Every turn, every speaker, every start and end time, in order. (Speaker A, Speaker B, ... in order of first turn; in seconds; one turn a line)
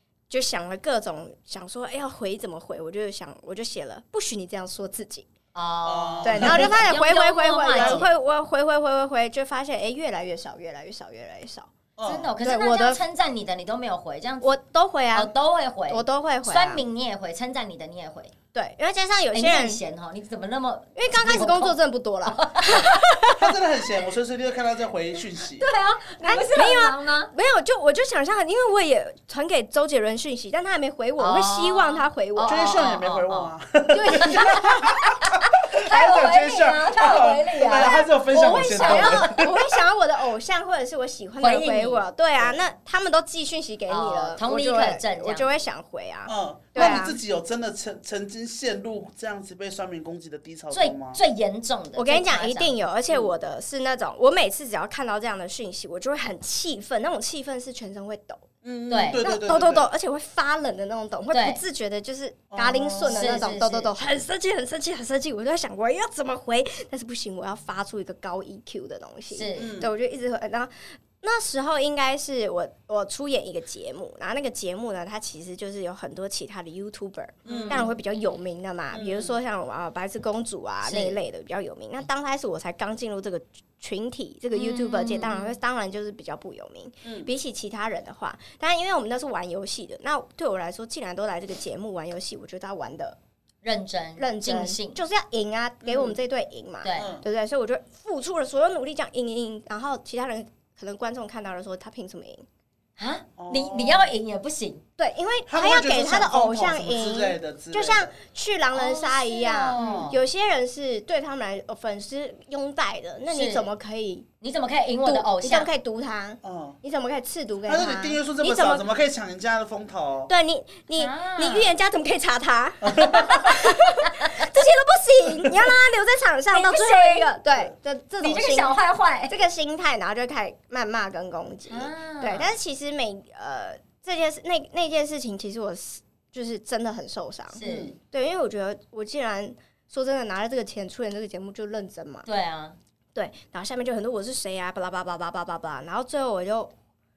Speaker A: 0.3-5.3
Speaker B: 5.5-8.1
Speaker C: 5.8-7.0
Speaker A: 6.2-11.7
Speaker C: 7.7-8.1
Speaker C: 12.0-12.3
Speaker B: 12.0-14.6
Speaker A: 12.4-13.0
Speaker A: 14.4-15.3
Speaker B: 15.1-18.3
Speaker A: 15.9-16.8
Speaker A: 18.5-19.8
Speaker B: 19.3-23.3
Speaker A: 20.9-23.5
Speaker C: 23.4-25.7
Speaker B: 25.6-27.3
Speaker A: 26.2-32.6
Speaker B: 31.2-33.5
Speaker C: 32.4-39.6
Speaker A: 33.9-34.9
Speaker B: 34.2-39.3
Speaker A: 37.6-47.2
Speaker B: 41.4-42.0
Speaker B: 43.9-45.5
Speaker C: 46.3-51.2
Speaker B: 50.7-52.7
Speaker A: 51.9-58.4
Speaker C: 58.6-59.9
Speaker B: 58.9-59.2
Speaker A: 59.1-93.2
Speaker B: 61.3-61.6
Speaker C: 62.5-63.4
Speaker B: 63.0-63.9
Speaker B: 69.3-69.8
Speaker C: 69.6-69.9
Speaker C: 77.5-77.9
Speaker B: 77.5-77.9
Speaker C: 78.9-79.3
Speaker B: 80.8-81.2
Speaker B: 84.5-85.5
Speaker B: 93.6-95.0
Speaker A: 94.2-102.4
Speaker C: 95.8-96.2
Speaker B: 96.8-97.1
Speaker C: 97.0-97.2
Speaker B: 103.0-104.8
Speaker C: 103.4-104.1
Speaker A: 105.0-114.3
Speaker C: 105.5-108.2
Speaker B: 108.7-110.2
Speaker C: 109.8-110.1
Speaker B: 113.3-113.7
Speaker B: 114.4-115.7
Speaker A: 115.0-118.8
Speaker C: 116.4-116.8
Speaker C: 117.7-120.3
Speaker A: 120.3-128.8
Speaker B: 121.0-121.7
Speaker C: 122.8-123.5
Speaker B: 126.5-127.3
Speaker B: 128.2-129.3
Speaker A: 129.3-142.2
Speaker B: 131.7-132.5
Speaker B: 137.5-137.9
Speaker C: 137.6-138.0
Speaker B: 142.2-142.8
Speaker A: 143.1-146.7